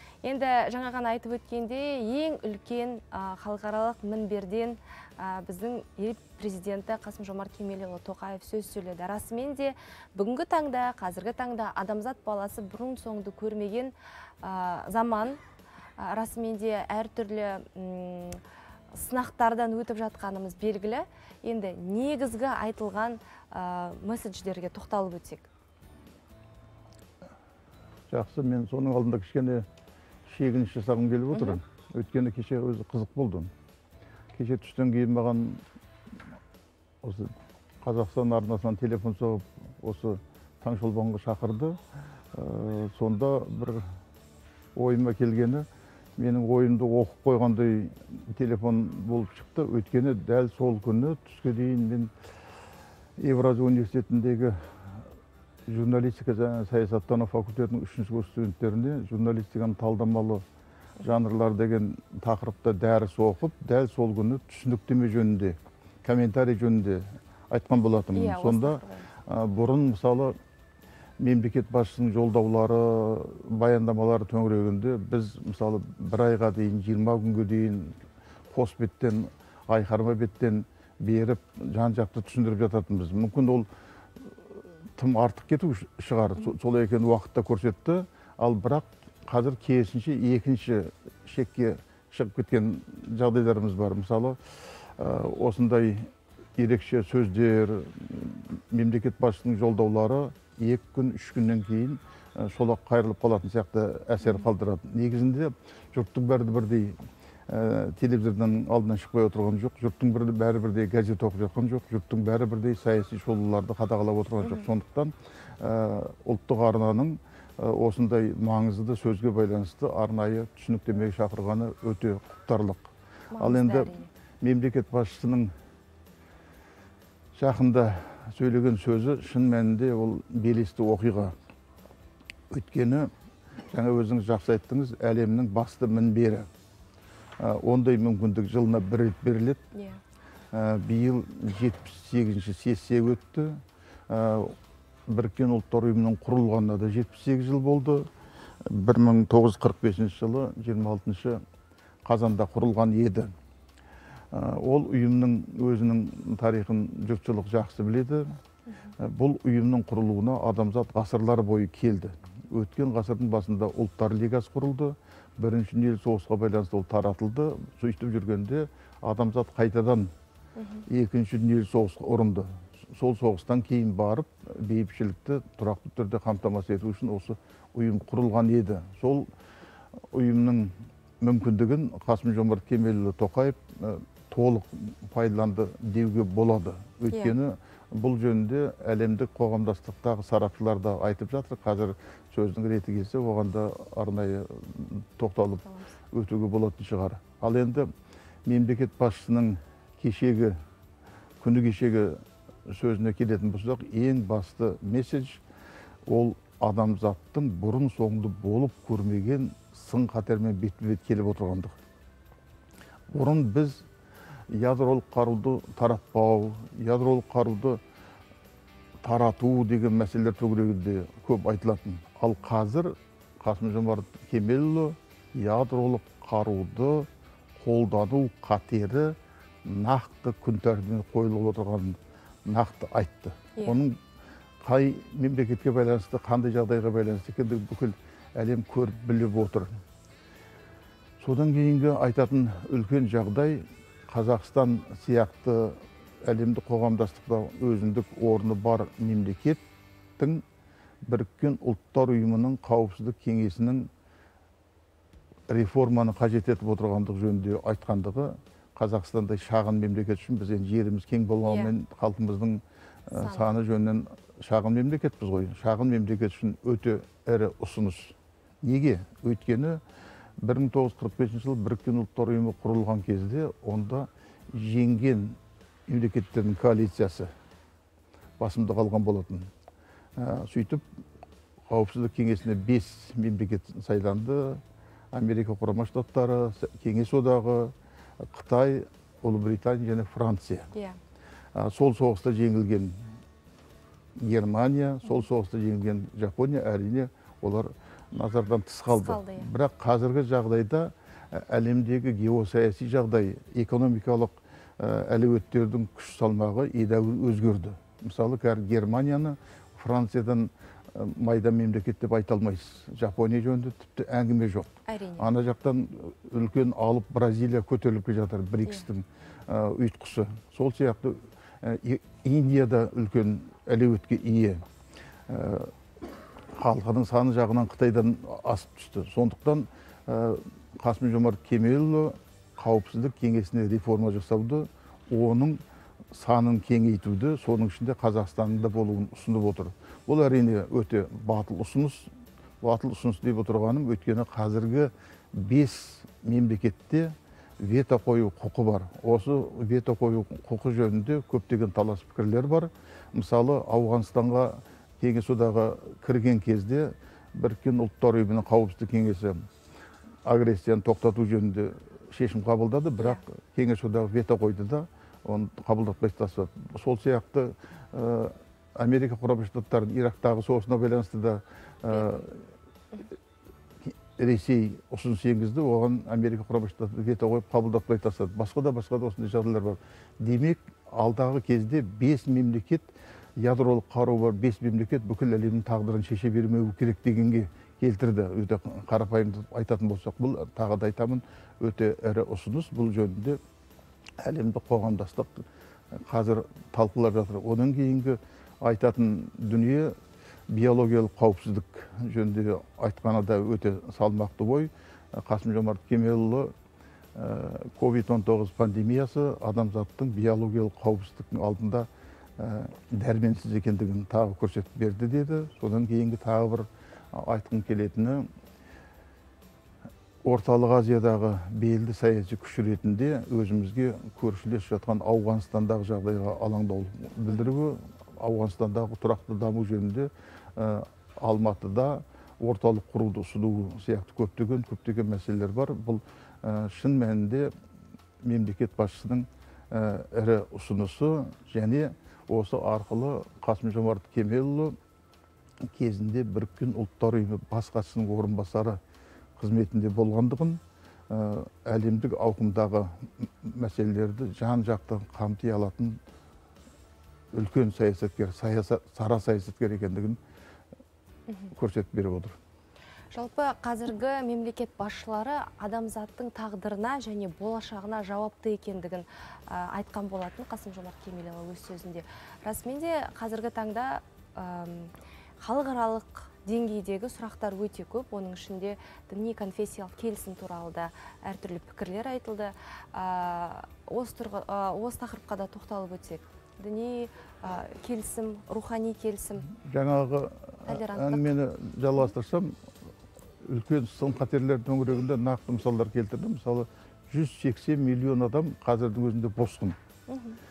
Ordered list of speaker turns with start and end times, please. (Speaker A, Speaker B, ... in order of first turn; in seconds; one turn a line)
Speaker A: 0.2-15.4
Speaker A: 16.0-18.4
Speaker A: 18.9-25.5
Speaker B: 28.1-29.7
Speaker B: 30.3-33.5
Speaker A: 31.3-31.6
Speaker B: 34.3-35.6
Speaker B: 37.0-41.8
Speaker B: 42.3-43.9
Speaker B: 44.8-45.7
Speaker B: 46.2-52.1
Speaker B: 53.2-55.0
Speaker B: 55.7-60.4
Speaker B: 61.0-70.3
Speaker A: 68.1-69.1
Speaker B: 71.2-78.0
Speaker B: 78.5-83.7
Speaker B: 84.3-107.0
Speaker B: 107.5-125.5
Speaker A: 123.3-124.1
Speaker B: 127.3-131.3
Speaker B: 132.5-133.1
Speaker B: 133.7-136.5
Speaker B: 137.4-139.6
Speaker A: 139.7-140.0
Speaker B: 140.5-144.6
Speaker B: 145.1-148.1
Speaker B: 148.7-151.4
Speaker B: 152.1-153.3
Speaker B: 154.3-158.3
Speaker B: 159.0-170.1
Speaker A: 170.6-170.8
Speaker B: 170.9-179.3
Speaker B: 180.1-197.9
Speaker A: 195.7-195.9
Speaker B: 198.5-200.6
Speaker B: 201.4-205.4
Speaker B: 206.1-211.8
Speaker B: 213.1-213.9
Speaker B: 214.5-217.8
Speaker B: 219.0-227.1
Speaker B: 227.6-234.0
Speaker A: 233.6-233.8
Speaker B: 234.6-239.7
Speaker B: 241.2-249.6
Speaker B: 250.2-250.4
Speaker B: 251.1-253.9
Speaker B: 255.5-269.8
Speaker A: 261.5-261.7
Speaker A: 263.1-263.5
Speaker B: 270.4-277.3
Speaker B: 278.4-279.5
Speaker B: 280.2-280.8
Speaker B: 281.7-284.6
Speaker B: 285.1-290.7
Speaker B: 291.6-293.0
Speaker B: 294.2-324.6
Speaker A: 298.9-299.5
Speaker A: 314.9-315.3
Speaker B: 325.3-325.7
Speaker B: 326.6-342.1
Speaker B: 342.6-359.4
Speaker B: 360.3-372.5
Speaker A: 371.9-372.2
Speaker B: 373.8-382.9
Speaker B: 383.4-393.4
Speaker B: 394.2-399.9
Speaker B: 400.5-406.5
Speaker B: 407.1-418.3
Speaker B: 420.2-437.5
Speaker B: 438.2-444.8
Speaker B: 445.7-448.8
Speaker B: 449.4-456.0
Speaker B: 457.3-460.2
Speaker B: 461.5-462.4
Speaker A: 463.1-489.5
Speaker B: 489.6-492.6
Speaker A: 490.7-491.3
Speaker B: 493.4-499.8
Speaker A: 500.1-500.4